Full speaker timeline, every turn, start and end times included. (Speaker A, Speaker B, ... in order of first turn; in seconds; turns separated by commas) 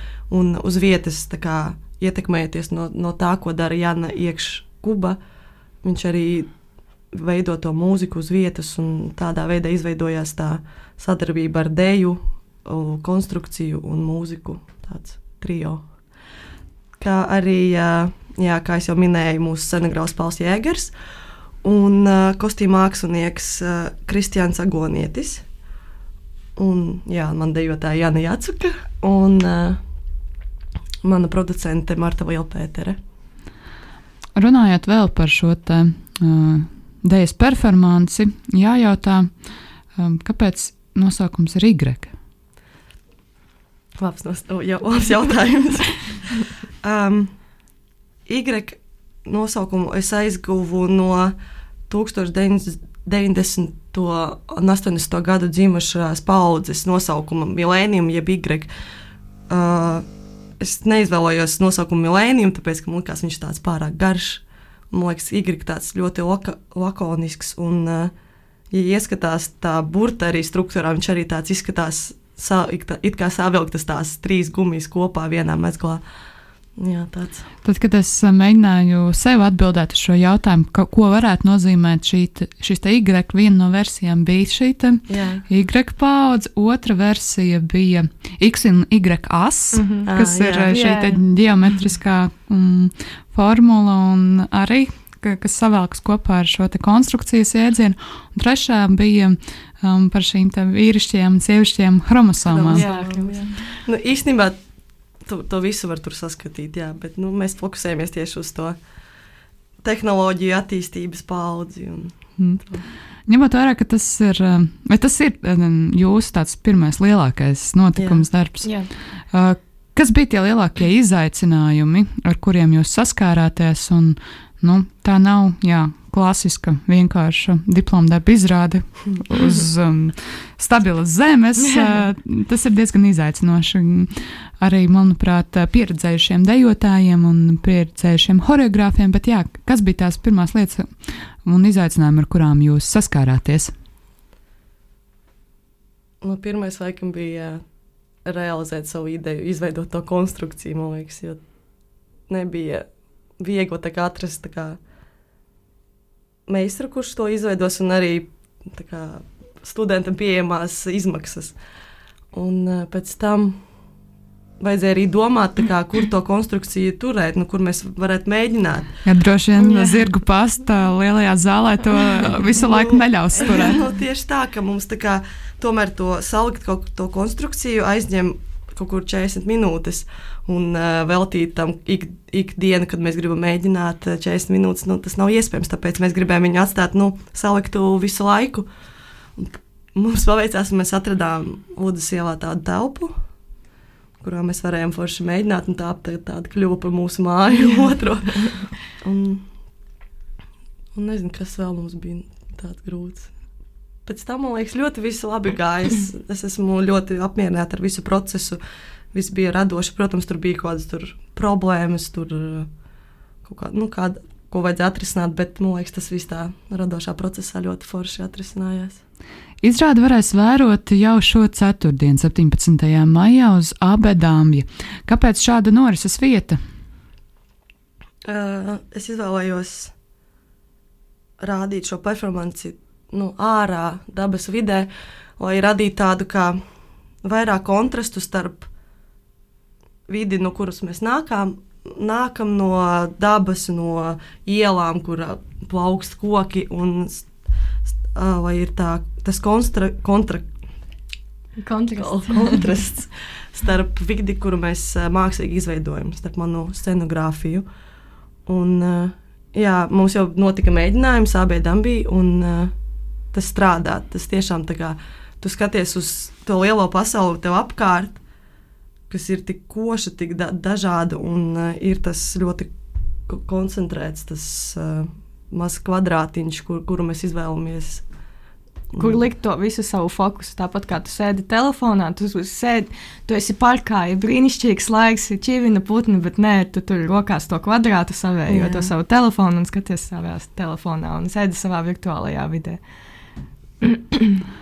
Speaker A: 0.3-5.2, Speaker A: 5.8-6.5, Speaker A: 7.1-15.8, Speaker A: 17.0-20.9, Speaker A: 21.6-25.4, Speaker A: 26.6-29.8, Speaker A: 31.0-33.0, Speaker B: 34.4-39.3, Speaker B: 40.0-42.1, Speaker A: 44.0-47.3, Speaker A: 48.2-51.3, Speaker A: 51.9-58.7, Speaker A: 59.5-60.0, Speaker A: 60.6-68.1, Speaker A: 68.7-76.0, Speaker A: 76.8-77.5, Speaker B: 77.6-102.8, Speaker A: 85.1-85.4, Speaker C: 89.7-91.2, Speaker A: 90.0-90.8, Speaker A: 102.5-104.6, Speaker C: 102.7-103.5, Speaker A: 105.2-108.8, Speaker A: 109.8-112.8, Speaker B: 112.4-112.6, Speaker B: 113.2-118.7, Speaker A: 118.0-118.2, Speaker C: 118.6-118.9, Speaker B: 119.3-140.9, Speaker B: 141.4-143.7, Speaker A: 146.2-147.6, Speaker A: 148.2-151.4, Speaker A: 152.3-152.8, Speaker A: 153.4-154.8, Speaker A: 156.5-161.6, Speaker A: 162.3-163.6, Speaker A: 164.6-168.9, Speaker B: 169.0-173.8, Speaker C: 169.6-170.0, Speaker A: 172.6-188.7, Speaker A: 189.4-193.1, Speaker A: 194.2-199.4, Speaker A: 200.9-203.3, Speaker A: 204.1-208.6, Speaker A: 209.1-212.7, Speaker A: 213.4-219.0, Speaker B: 219.6-226.6, Speaker A: 228.2-229.9, Speaker A: 231.4-236.6, Speaker A: 237.2-238.7, Speaker A: 240.1-247.3, Speaker A: 248.1-250.4, Speaker C: 251.6-252.6, Speaker A: 252.0-257.6, Speaker A: 258.4-262.7, Speaker A: 263.3-268.2, Speaker A: 269.1-272.7, Speaker A: 273.3-278.0, Speaker A: 278.9-279.2, Speaker C: 279.0-292.8, Speaker A: 288.5-288.9, Speaker C: 293.8-294.2